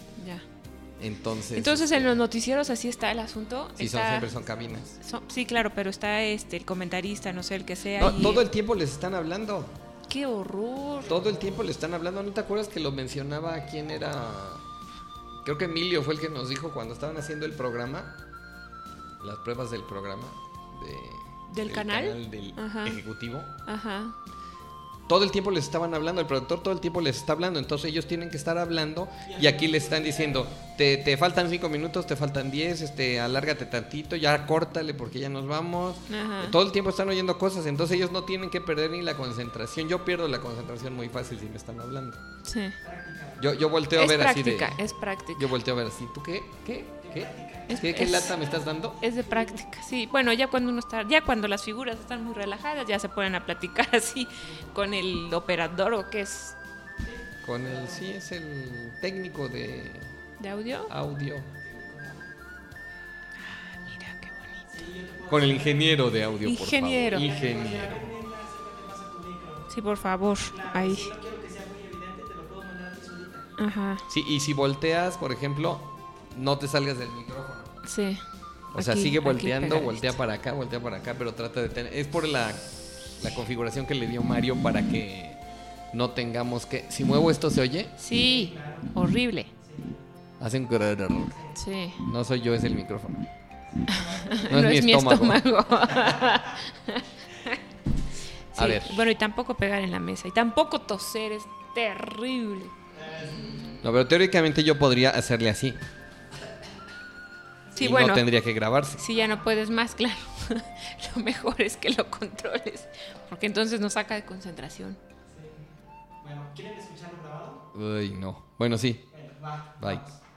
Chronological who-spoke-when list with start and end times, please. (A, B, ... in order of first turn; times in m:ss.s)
0:00.2-0:00.4 A
0:01.0-0:02.2 B
0:01.5-0:04.3 A
0:03.8-0:04.9 B
0:05.0-0:08.4 A
0:08.0-0:09.7 B
0:10.1-0:11.2 A
0:11.0-0:14.6 B
0:11.1-0:11.6 C
0:15.4-0:18.2 B
0:19.2-0:23.5 B
0:21.5-0:23.0 A
0:23.6-0:24.2 A
0:25.1-0:42.2 B
0:29.2-0:30.5 C
0:36.1-0:36.6 A
0:42.4-0:42.8 A
0:42.8-0:43.5 C
0:43.4-0:44.8 B
0:43.9-0:45.5 A
0:45.3-0:49.0 B
0:47.0-0:49.6 C
0:47.7-0:48.4 A
0:49.0-0:56.6 A
0:57.0-0:58.1 C
0:57.4-1:00.1 B
1:00.4-1:00.9 A
1:00.9-1:01.5 B
1:01.6-1:02.3 C
1:03.4-1:04.6 A
1:04.7-1:06.4 C
1:05.3-1:08.0 B
1:06.4-1:07.3 A
1:07.1-1:09.7 C
1:09.7-1:11.1 A
1:10.5-1:13.5 C
1:13.6-1:14.0 A
1:14.1-1:17.7 B
1:17.8-1:20.2 A
1:18.8-1:25.4 B
1:25.9-1:27.9 B
1:28.0-1:29.5 A
1:28.1-1:29.0 C
1:29.5-1:30.0 C
1:30.4-1:31.4 B
1:31.3-1:31.6 C
1:31.6-1:32.0 A
1:32.0-1:33.3 B
1:33.8-1:34.5 C
1:33.9-1:37.6 A
1:34.5-1:35.4 B
1:35.9-1:36.4 C
1:38.5-1:42.7 A
1:38.6-1:39.0 B
1:42.9-1:43.7 C
1:43.8-1:45.8 B
1:47.8-1:48.3 A
1:47.8-1:49.0 B
1:49.0-1:55.0 A
1:49.1-1:49.5 C
1:55.3-1:55.6 C
1:56.2-1:57.6 C
1:57.7-1:59.0 B
1:59.1-2:00.2 C